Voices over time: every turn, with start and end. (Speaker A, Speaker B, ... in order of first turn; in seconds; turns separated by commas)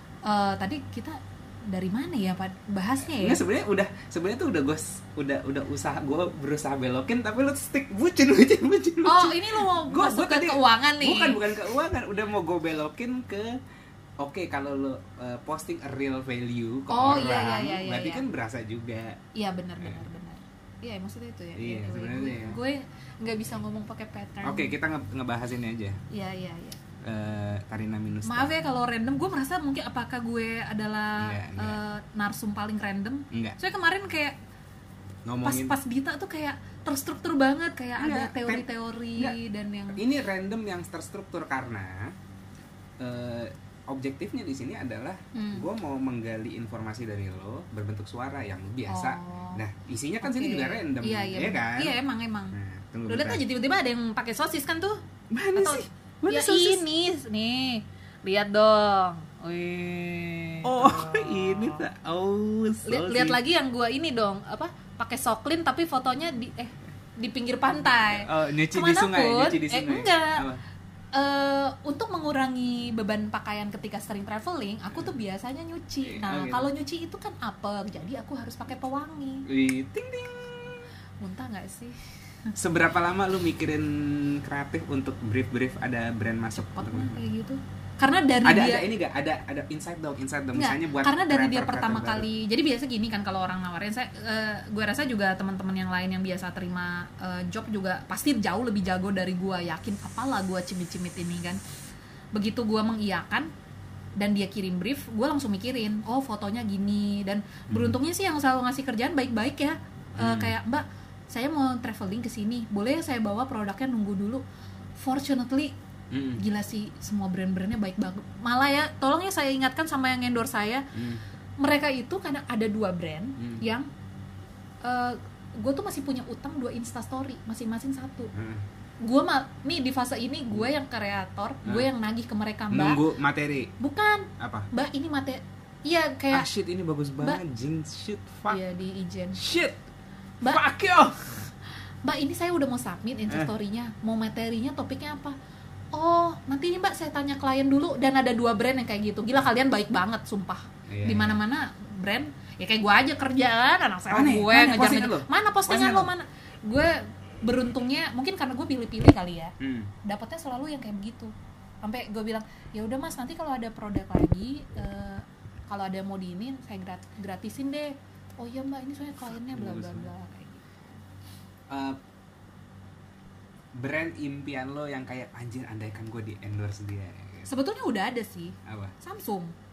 Speaker A: 0.2-3.4, Speaker B: 3.0-13.6, Speaker A: 9.0-11.6, Speaker B: 14.2-19.2, Speaker A: 16.9-18.2, Speaker A: 19.4-24.7, Speaker B: 21.6-22.6, Speaker B: 24.4-26.0, Speaker A: 26.1-26.8, Speaker B: 27.0-28.5, Speaker A: 28.2-34.4, Speaker B: 31.2-31.8, Speaker B: 35.2-35.7, Speaker A: 35.4-40.0, Speaker B: 38.0-39.4, Speaker B: 39.9-42.1, Speaker B: 43.0-52.0, Speaker A: 45.3-45.6, Speaker A: 48.9-49.6, Speaker A: 50.2-52.5, Speaker B: 52.5-53.4, Speaker A: 53.1-55.0, Speaker B: 55.3-56.9, Speaker A: 55.5-61.8, Speaker B: 60.6-63.4, Speaker A: 62.9-70.5, Speaker B: 67.8-70.6, Speaker A: 71.1-79.5, Speaker B: 76.0-76.7, Speaker B: 79.5-80.9, Speaker A: 81.2-82.5, Speaker B: 82.6-87.2, Speaker A: 86.6-88.8, Speaker B: 88.4-92.3, Speaker A: 90.5-101.6, Speaker A: 102.3-103.5, Speaker A: 104.2-114.4, Speaker B: 107.7-108.0, Speaker B: 110.2-110.6, Speaker A: 115.0-115.7, Speaker B: 116.1-116.4, Speaker A: 116.3-120.9, Speaker B: 120.9-121.2, Speaker A: 121.6-123.9, Speaker A: 124.8-128.3, Speaker B: 128.3-128.6, Speaker A: 129.0-133.0, Speaker B: 132.7-133.7, Speaker A: 133.8-136.5, Speaker B: 134.4-134.7, Speaker B: 136.3-138.6, Speaker A: 138.5-139.4, Speaker B: 139.4-139.8, Speaker B: 140.4-141.5, Speaker A: 142.0-145.3, Speaker A: 145.9-170.8, Speaker B: 150.9-151.4, Speaker B: 154.1-156.1, Speaker B: 159.6-159.9, Speaker B: 169.5-170.1, Speaker B: 171.7-172.0, Speaker B: 173.7-177.5, Speaker A: 177.5-179.5, Speaker B: 178.7-178.9